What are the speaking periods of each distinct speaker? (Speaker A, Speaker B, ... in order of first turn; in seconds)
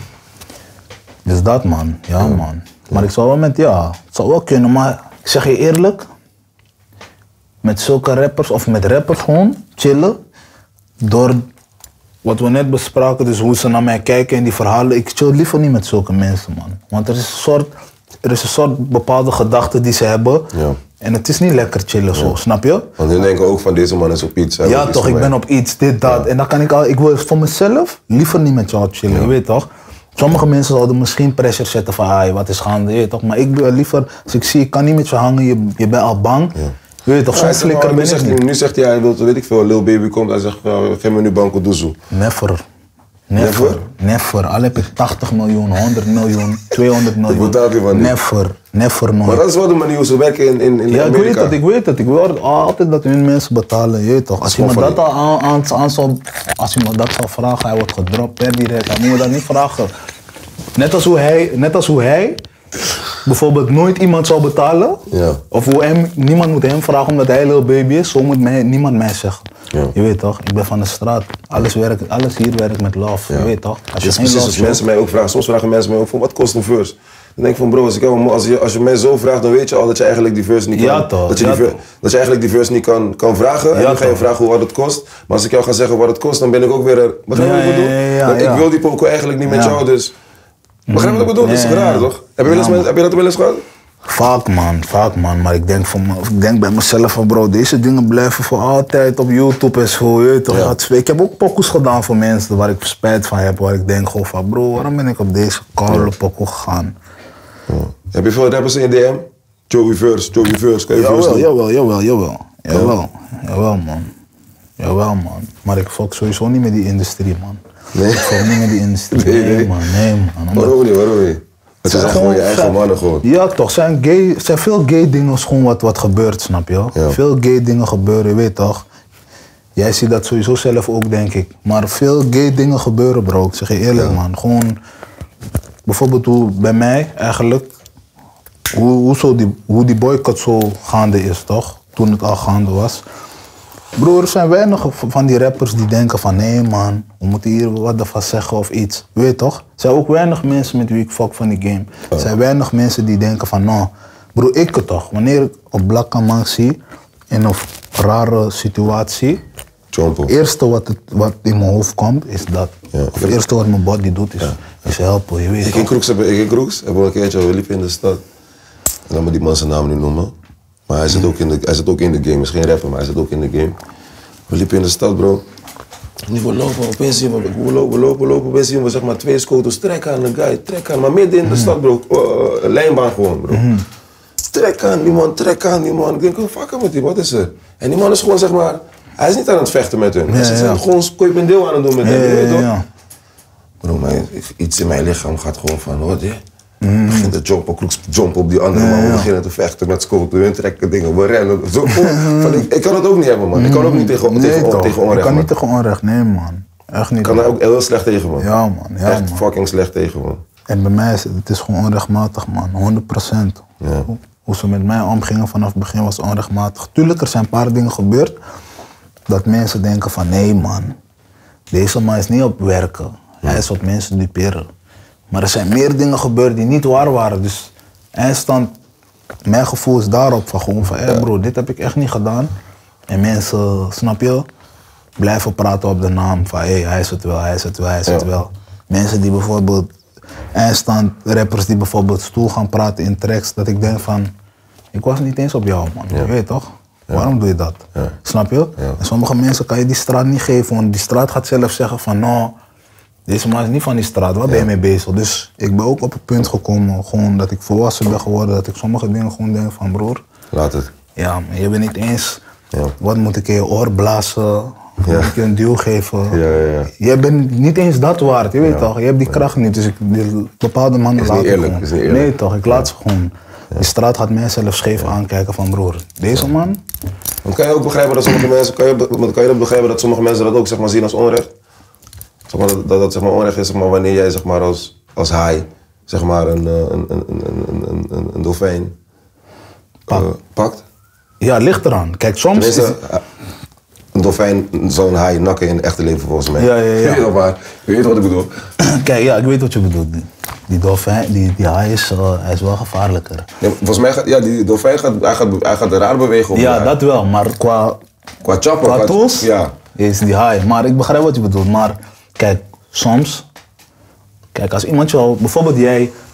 Speaker A: 1.2-6.1, 7.6-10.2, 11.0-11.5, 12.2-17.7, 18.2-23.0, 24.6-38.4, 42.1-42.6, 43.3-49.5, 50.9-59.9, 60.8-62.4, 63.2-74.8, 80.7-81.8, 83.7-84.3, 87.3-88.7, 89.5-89.8, 90.9-92.9, 94.1-107.0, 110.9-114.1, 114.8-120.8, 121.8-128.9, 129.8-134.8, 135.9-137.7, 138.7-143.0, 144.0-156.8, 157.3-159.4, 160.3-165.9, 181.5-181.7, 183.5-183.9, 190.3-190.8, 192.0-192.8, 196.8-197.3, 198.7-199.3, 201.9-202.7, 203.6-207.5, 208.4-209.4, 210.7-218.4, 219.3-221.0, 221.7-224.7, 225.3-228.7, 229.5-232.5, 233.1-234.5, 235.2-239.9, 240.5-244.3, 244.9-252.6, 253.3-260.2, 261.2-262.4, 263.0-266.4, 266.9-276.8, 291.4-293.0, 296.6-297.3, 298.8-303.5, 306.5-308.0, 308.8-313.5, 314.5-316.1
Speaker B: 20.5-20.8, 23.0-25.3, 37.3-42.0, 43.4-43.8, 47.3-48.1, 49.2-51.6, 54.4-55.0, 65.1-65.4, 73.3-90.2, 90.9-93.7, 100.5-100.8, 107.7-111.5, 117.9-119.8, 120.5-123.2, 159.9-160.3, 162.9-163.4, 165.6-168.2, 169.1-170.3, 170.9-173.8, 174.5-175.4, 176.3-183.7, 184.5-192.7, 193.8-196.4, 197.1-205.5, 207.2-208.5, 209.1-210.4, 213.8-214.1, 260.5-260.9, 265.0-265.4, 266.3-266.9, 268.6-269.4, 271.2-272.9, 277.4-281.5, 282.5-288.9, 290.1-290.8, 292.5-293.2, 294.1-298.5, 303.6-307.0, 308.4-309.8